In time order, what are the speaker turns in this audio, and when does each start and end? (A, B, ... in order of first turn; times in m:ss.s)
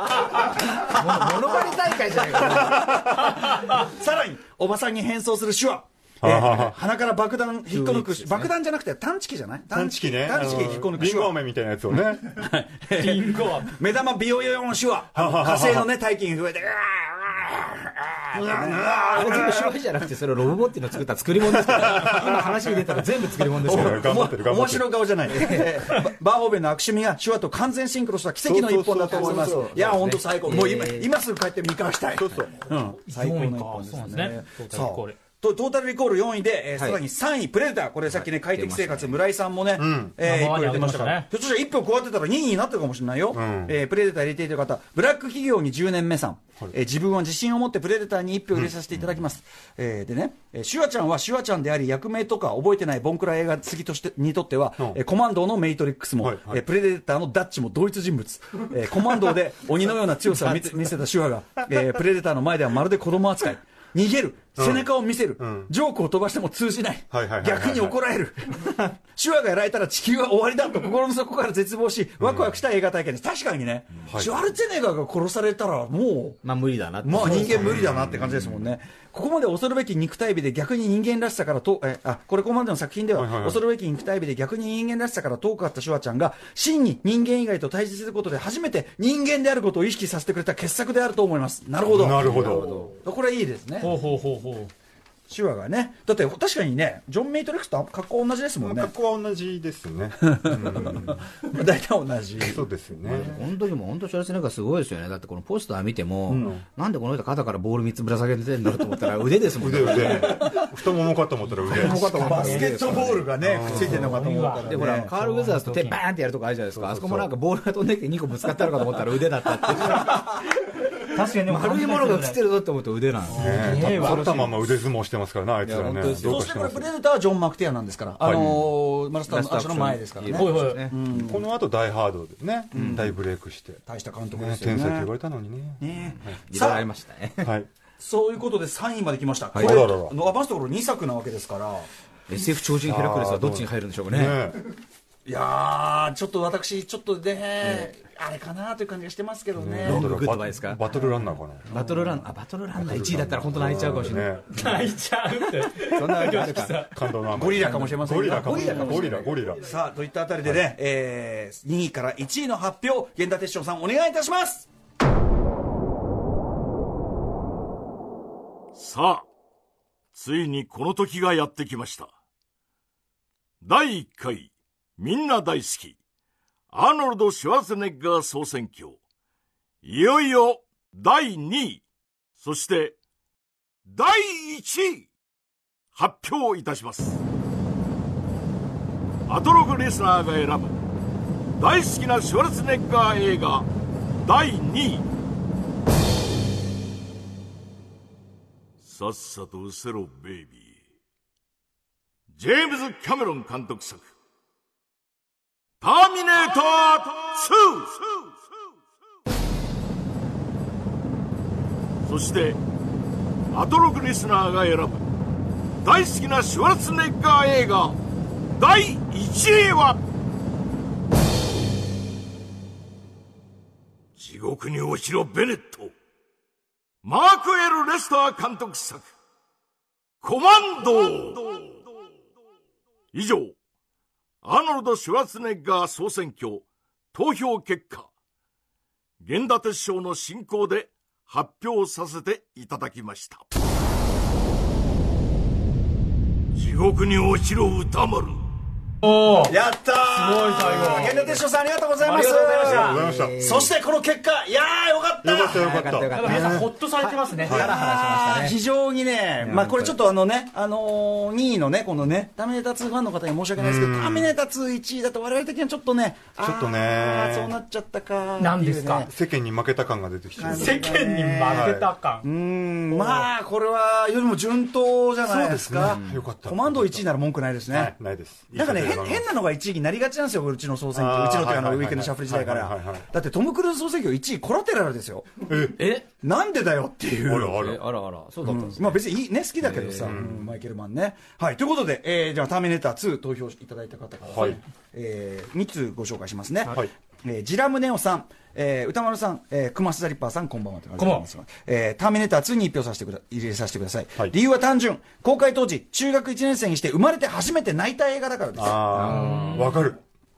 0:00.4-0:11.3 A
0:00.8-0:03.0 B
0:02.4-0:03.2 C
0:06.2-0:06.8 C
0:07.7-0:08.5 B
0:09.7-0:12.3 C
0:12.3-0:19.6 A
0:13.0-0:13.8 D
0:15.2-0:15.9 C
0:18.3-0:19.7 C
0:19.1-0:24.2 B
0:21.4-0:25.1 C
0:23.6-1:16.4 A
0:25.3-0:25.8 B
0:28.4-0:29.7 C
0:29.1-0:31.1 B
0:32.2-0:32.6 C
0:33.0-0:35.2 D
0:36.8-0:37.0 B
0:38.1-0:39.2 B
0:39.8-0:40.2 C
0:40.2-0:41.3 D
0:43.3-0:43.8 C
0:56.2-0:56.6 C
1:04.6-1:04.9 C
1:05.4-1:05.7 C
1:07.1-1:08.0 C
1:12.2-1:12.6 C
1:14.1-1:14.3 C
1:16.4-1:17.9 B
1:17.0-1:34.0 A
1:17.2-1:18.6 C
1:23.1-1:23.6 C
1:31.9-1:32.7 C
1:32.1-1:33.0 B
1:33.8-1:34.7 D
1:35.3-1:38.9 A
1:38.6-1:41.2 C
1:40.3-1:42.6 A
1:42.4-1:43.4 C
1:43.0-1:50.7 B
1:46.3-1:46.6 A
1:46.3-1:46.6 C
1:49.6-1:52.0 C
1:51.6-1:54.1 B
1:51.7-1:53.1 D
1:51.7-1:55.1 A
1:53.4-1:54.2 C
1:53.8-1:56.0 D
1:54.6-2:00.4 B
1:56.7-1:57.3 C
1:59.9-2:00.2 D
2:01.0-2:02.4 D
2:01.2-2:04.7 B
2:03.3-2:04.5 D
2:03.3-2:06.9 C
2:05.6-2:06.4 B
2:06.2-2:11.4 A
2:08.2-2:08.5 C
2:08.3-2:08.7 B
2:09.3-2:11.0 B
2:10.3-2:10.9 D
2:11.2-2:13.8 C
2:12.7-2:13.2 A
2:12.8-2:13.0 B
2:13.9-2:15.1 A
2:14.3-2:16.4 C
2:15.8-2:16.9 A
2:16.3-2:17.5 B
2:17.4-2:17.7 C
2:18.0-2:21.9 A
2:19.5-2:19.8 B
2:19.6-2:20.2 C
2:22.3-2:24.4 B
2:22.8-2:24.6 C
2:25.2-2:30.2 A
2:29.6-2:31.7 C
2:29.8-2:30.8 B
2:30.9-2:32.2 A
2:31.7-2:34.4 B
2:32.8-2:34.7 C
2:34.5-2:37.1 D
2:35.8-2:36.9 B
2:36.9-2:39.7 C
2:37.3-2:44.7 A
2:37.5-2:39.3 B
2:48.7-2:49.3 E
2:50.1-2:52.1 E
2:53.6-2:56.0 E
2:56.7-2:59.0 E
2:59.8-3:01.8 E
3:02.4-3:03.0 E
3:03.9-3:05.1 E
3:05.9-3:07.2 E
3:09.3-3:10.8 E
3:11.6-3:13.7 E
3:14.2-3:15.1 E
3:18.8-3:20.8 E
3:22.3-3:24.1 E
3:25.8-3:28.4 E
3:32.0-3:32.6 E
3:33.5-3:35.0 E
3:35.8-3:38.0 E
3:38.6-3:40.0 E
3:44.2-3:45.9 E
3:47.0-3:49.1 E
3:50.2-3:51.8 E
3:53.1-3:53.6 E
3:54.4-3:58.1 E
3:59.2-4:03.4 E
4:06.5-4:08.4 E
4:09.0-4:09.6 D
4:09.4-4:15.8 A
4:10.1-4:11.4 D
4:12.0-4:13.0 D
4:12.6-4:13.4 C
4:12.9-4:13.7 B
4:15.2-4:16.7 C
4:15.5-4:18.6 B
4:16.1-4:17.7 D
4:17.3-4:29.1 A
4:19.4-4:20.0 B
4:23.6-4:24.3 C
4:26.4-4:27.6 C
4:28.4-4:29.1 D
4:29.1-4:30.9 C
4:30.4-4:31.7 A
4:30.4-4:32.3 D
4:31.4-4:31.9 C
4:32.2-4:38.0 A
4:32.9-4:33.3 D
4:35.2-4:37.1 C
4:35.8-4:36.3 B
4:37.7-4:39.3 C
4:38.5-4:45.4 A
4:40.9-4:43.1 C
4:45.5-4:45.9 C
4:45.8-4:46.1 B
4:46.2-4:47.7 A
4:47.2-4:47.8 C
4:47.5-4:49.0 B
4:48.4-5:09.0 A
4:49.6-4:50.2 B
4:50.0-4:50.5 C
4:54.3-4:54.6 C
5:01.0-5:01.3 D
5:08.6-5:10.0 C
5:08.9-5:09.8 B
5:09.1-5:09.9 D